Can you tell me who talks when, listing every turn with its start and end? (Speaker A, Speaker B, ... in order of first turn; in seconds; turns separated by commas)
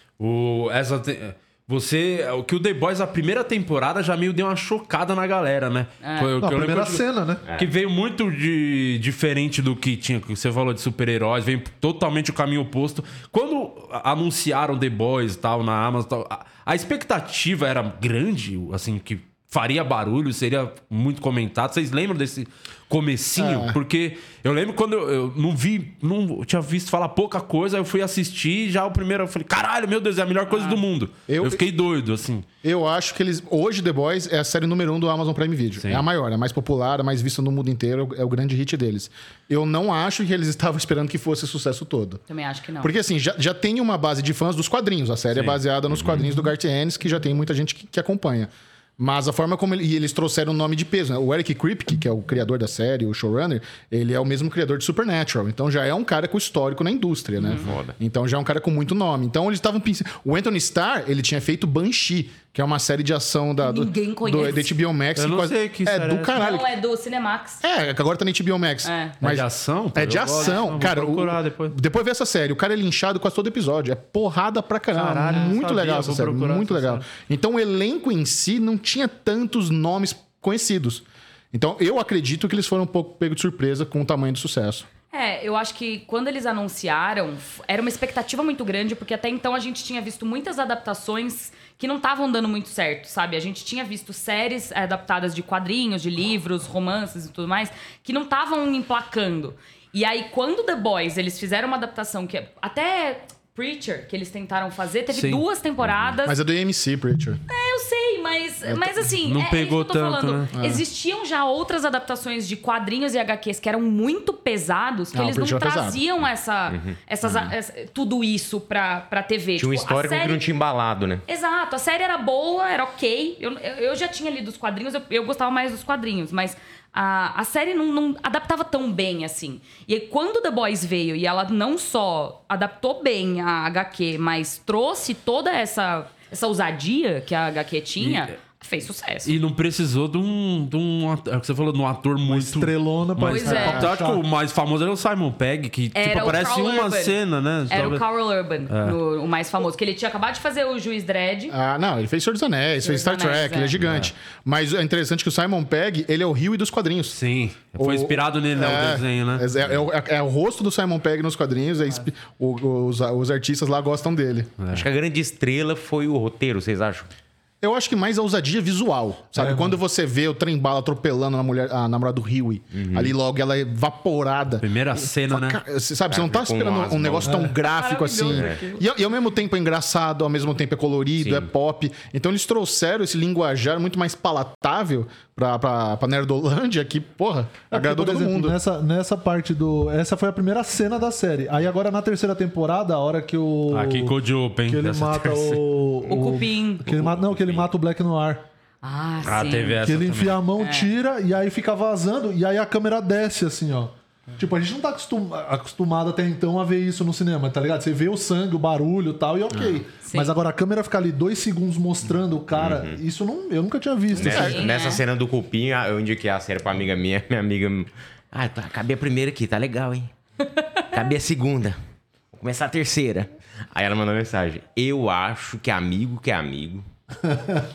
Speaker A: 0.2-32.5, Speaker B: 6.0-6.3, Speaker C: 6.4-7.4, Speaker D: 23.4-23.8, Speaker B: 30.5-30.8, Speaker D: 31.3-31.6, Speaker D: 32.6-42.2, Speaker A: 35.8-36.0, Speaker B: 42.3-42.9, Speaker D: 42.8-66.7, Speaker A: 45.3-45.6, Speaker E: 45.9-46.2, Speaker B: 57.4-57.7, Speaker E: 57.6-58.0, Speaker B: 63.6-64.7, Speaker A: 65.2-66.4, Speaker B: 66.3-67.6, Speaker D: 67.6-84.8, Speaker B: 68.8-69.2, Speaker A: 69.2-71.8, Speaker A: 74.9-77.1, Speaker B: 85.1-106.4, Speaker A: 105.1-105.4, Speaker D: 106.2-107.4, Speaker B: 107.5-120.4, Speaker A: 109.2-110.5, Speaker D: 110.5-110.8, Speaker D: 115.1-116.0, Speaker E: 116.7-117.5, Speaker E: 119.6-121.2, Speaker B: 121.3-139.3, Speaker A: 138.0-138.3, Speaker A: 139.2-148.1, Speaker C: 142.3-144.2, Speaker B: 143.3-143.9, Speaker D: 143.5-143.8, Speaker B: 145.9-147.2, Speaker B: 147.7-151.5, Speaker A: 148.7-149.0, Speaker D: 151.5-157.2, Speaker B: 152.8-153.8, Speaker A: 153.8-154.1, Speaker A: 157.1-159.5, Speaker D: 157.8-164.6, Speaker A: 164.6-164.9, Speaker E: 164.7-167.1, Speaker D: 167.6-188.6, Speaker C: 169.4-169.8, Speaker E: 172.7-173.1, Speaker A: 174.6-175.6, Speaker E: 176.1-177.5, Speaker C: 177.2-177.6, Speaker B: 177.6-178.9, Speaker E: 178.3-178.6, Speaker E: 181.2-181.5, Speaker C: 187.7-198.4, Speaker A: 193.7-195.6, Speaker B: 196.1-196.8, Speaker B: 198.8-199.8, Speaker A: 199.2-200.4, Speaker C: 199.8-214.6, Speaker B: 200.6-200.9, Speaker B: 210.0-210.3, Speaker E: 212.5-213.0, Speaker E: 214.2-220.1, Speaker B: 214.2-215.0, Speaker D: 214.3-214.7, Speaker E: 220.9-221.8, Speaker E: 222.3-226.8